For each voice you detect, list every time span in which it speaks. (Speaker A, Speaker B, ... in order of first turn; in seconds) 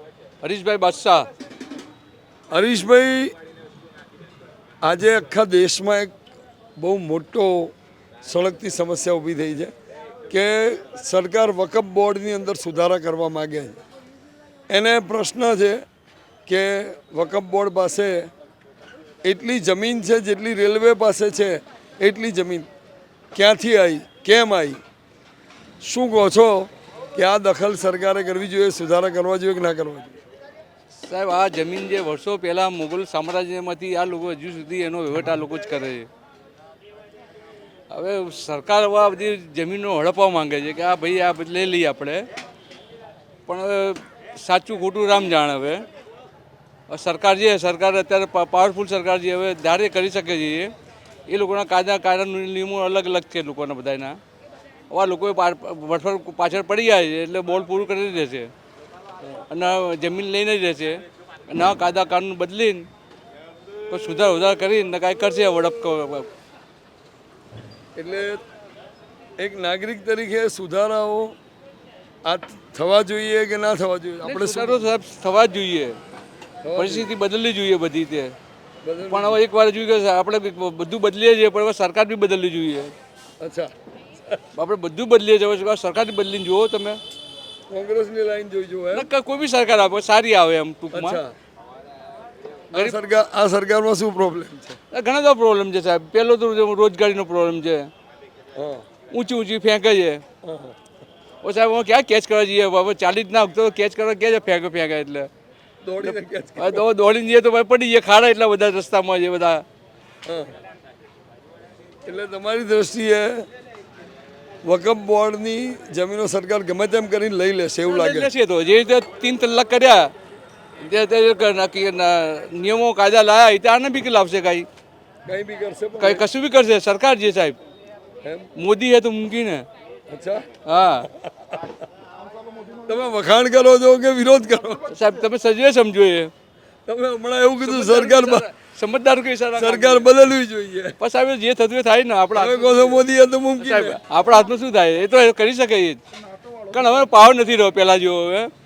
Speaker A: 0.4-1.3, 30.9-36.1, 37.9-42.3, 43.5-45.9, 46.9-50.7, 51.3-54.2, 54.9-58.5, 59.5-62.9, 63.9-66.3, 74.2-76.0, 76.8-78.3, 79.1-82.9, 84.5-87.0, 88.9-91.2, 94.9-97.9, 99.1-100.2, 101.4-105.3, 106.0-109.7, 117.9-120.1, 120.8-124.7, 126.0-127.6, 128.6-129.7, 130.7-131.1, 134.9-136.3, 137.6-140.1, 141.0-143.0, 143.6-146.0, 146.7-148.5
Speaker B: 2.5-3.3, 4.8-6.1, 6.8-9.7, 10.3-13.8, 14.7-15.8, 16.5-18.3, 19.2-22.7, 23.3-24.8, 25.8-30.2, 68.0-68.4, 69.4-71.4, 72.3-74.9, 76.6-77.1, 78.8-79.4, 83.4-83.7, 87.7-89.1, 90.9-91.3, 92.7-94.8, 98.6-98.8, 100.4-100.8, 105.8-106.8, 110.3-110.5, 112.1-113.5, 114.7-118.3, 125.3-126.2, 128.2-128.5, 130.1-130.5, 131.1-131.7, 132.8-134.9, 136.9-138.5, 139.6-141.0, 142.3-144.0